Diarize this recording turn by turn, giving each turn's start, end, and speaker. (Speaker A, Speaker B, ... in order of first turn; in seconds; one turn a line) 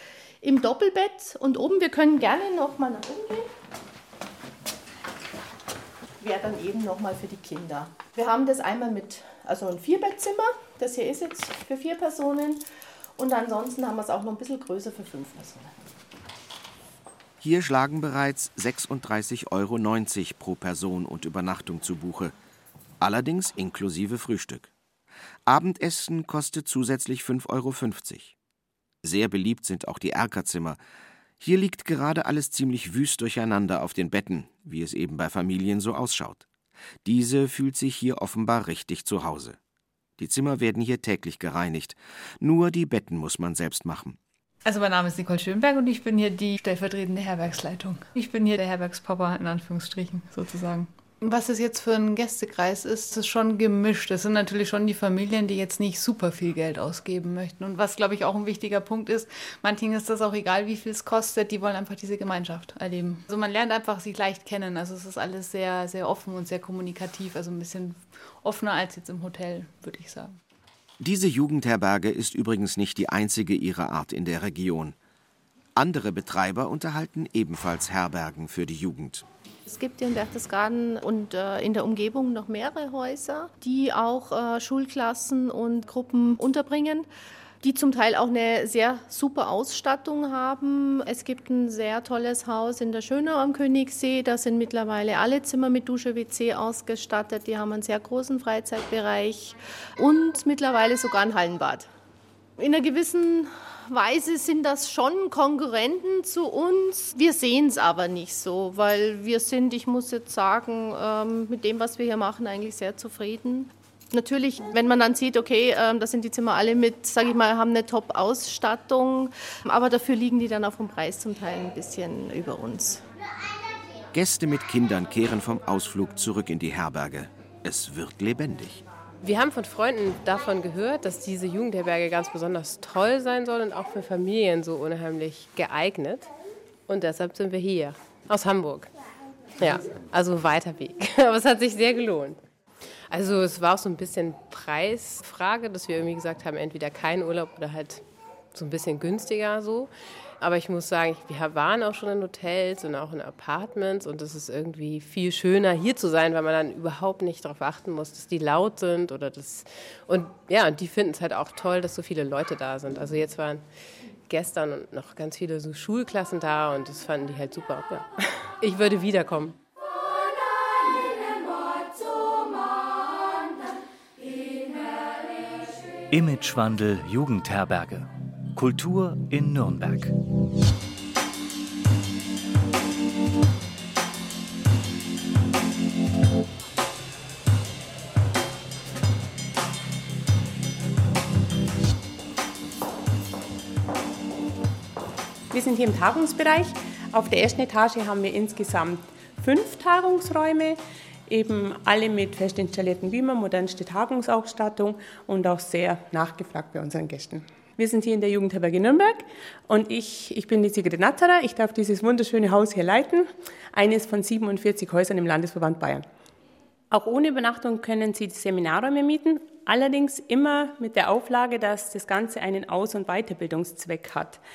Speaker A: 0.4-3.5
Speaker A: 6.2-12.6
Speaker A: 13.2-15.7
Speaker B: 17.4-22.4
Speaker B: 23.0-24.7
Speaker B: 25.5-28.3
Speaker B: 29.0-30.8
Speaker B: 31.4-36.5
Speaker B: 37.0-39.6
Speaker B: 40.2-44.2
Speaker C: 44.6-70.4
Speaker B: 71.0-75.0
Speaker B: 75.8-79.3
Speaker A: 79.7-87.1
Speaker A: 87.6-101.9
Speaker A: 102.6-123.0
Speaker B: 124.1-128.8
Speaker D: 129.2-136.3
Speaker D: 136.9-138.9
Speaker D: 139.6-142.4
Speaker D: 143.1-163.7
Speaker D: 164.3-169.6
Speaker E: 176.1-180.1
Speaker F: 195.5-216.1
Speaker F: 216.9-224.4